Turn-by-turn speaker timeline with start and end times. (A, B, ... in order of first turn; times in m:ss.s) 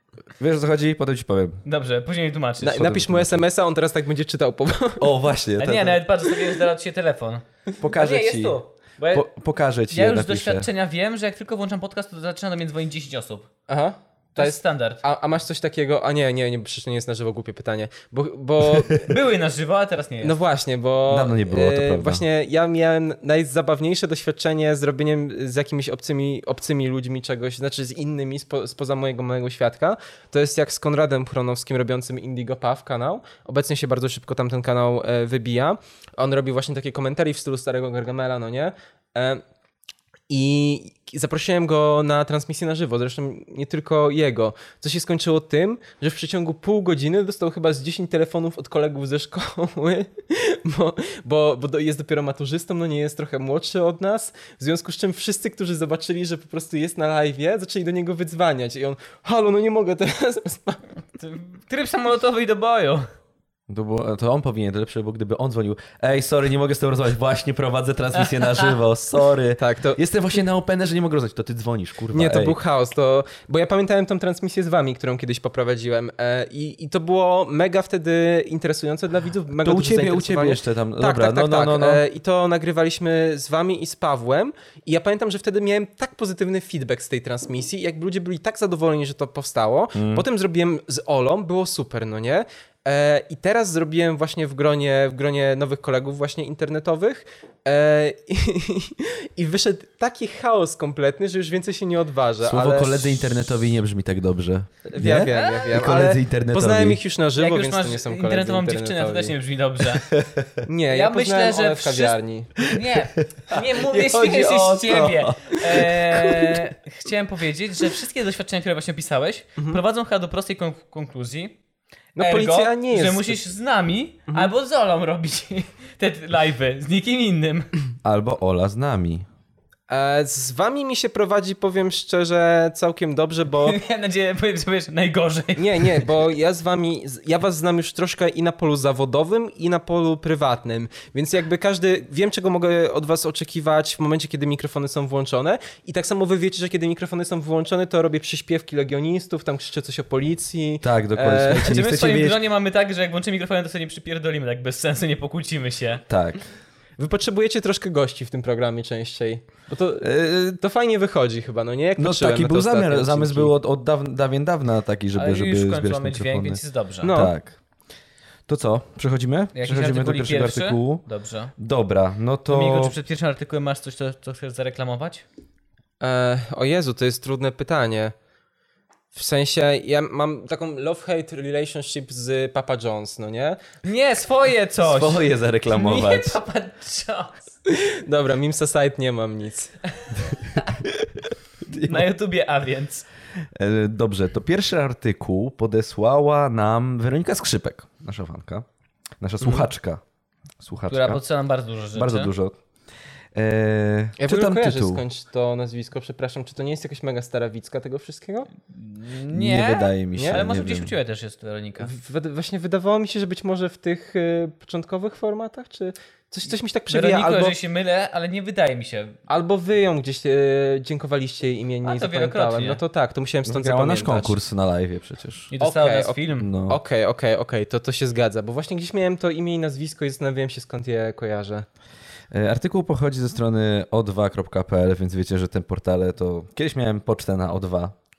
0:00.4-0:01.6 A
0:01.6-0:02.8 B
0:02.6-0:05.1 C
0:02.7-0:03.4 A
0:05.0-0:06.0 A
0:05.6-0:09.3 B
0:07.8-0:08.6 A
0:09.1-0:10.7 A
0:09.9-0:13.5 B
0:13.7-0:19.0 C
0:14.4-0:15.0 B
0:19.1-0:20.4 B
0:20.2-0:39.4 C
0:21.1-0:22.2 A
0:40.3-1:00.8 C
1:01.2-1:03.1 B
1:03.7-1:12.6 A
1:09.6-1:10.0 C
1:12.1-1:43.6 C
1:19.5-1:22.0 A
1:30.0-1:30.3 A
1:42.4-1:47.0 A
1:44.9-1:49.4 C
1:47.4-1:50.1 B
1:50.1-1:50.5 A
1:50.7-1:52.6 C
1:50.9-2:01.6 B
1:53.5-1:56.6 A
2:02.2-2:03.4 C
2:02.2-2:07.7 B
2:08.0-2:09.3 A
2:09.9-2:13.8 C
2:13.6-2:16.0 B
2:15.6-2:31.7 C
2:30.8-2:32.4 A
2:31.6-2:36.0 B
2:36.1-2:36.4 A
2:37.0-2:43.5 C
2:40.0-2:40.6 A
2:42.0-2:47.6 A
2:45.2-2:47.1 B
2:47.0-2:47.4 C
2:48.5-2:51.0 A
2:49.5-2:51.5 B
2:51.6-2:53.0 A
2:52.5-2:55.2 B
2:56.0-2:58.2 C
2:59.1-3:03.6 C
3:03.8-3:07.4 B
3:04.8-3:06.4 A
3:07.7-3:09.7 C
3:10.8-3:12.1 A
3:11.8-3:13.1 B
3:13.6-3:18.7 A
3:19.2-3:20.0 A
3:20.6-3:21.2 A
3:20.9-3:22.3 B
3:21.9-3:22.6 A
3:23.4-3:25.0 A
3:24.2-3:28.5 C
3:28.7-3:31.9 B
3:29.3-3:30.9 A
3:31.8-3:37.6 C
3:36.9-3:39.2 B
3:39.3-3:44.4 C
3:41.8-3:42.8 B
3:43.4-3:45.5 A
3:45.5-3:46.5 B
3:45.6-3:51.7 C
3:46.4-3:46.8 A
3:52.3-3:58.0 A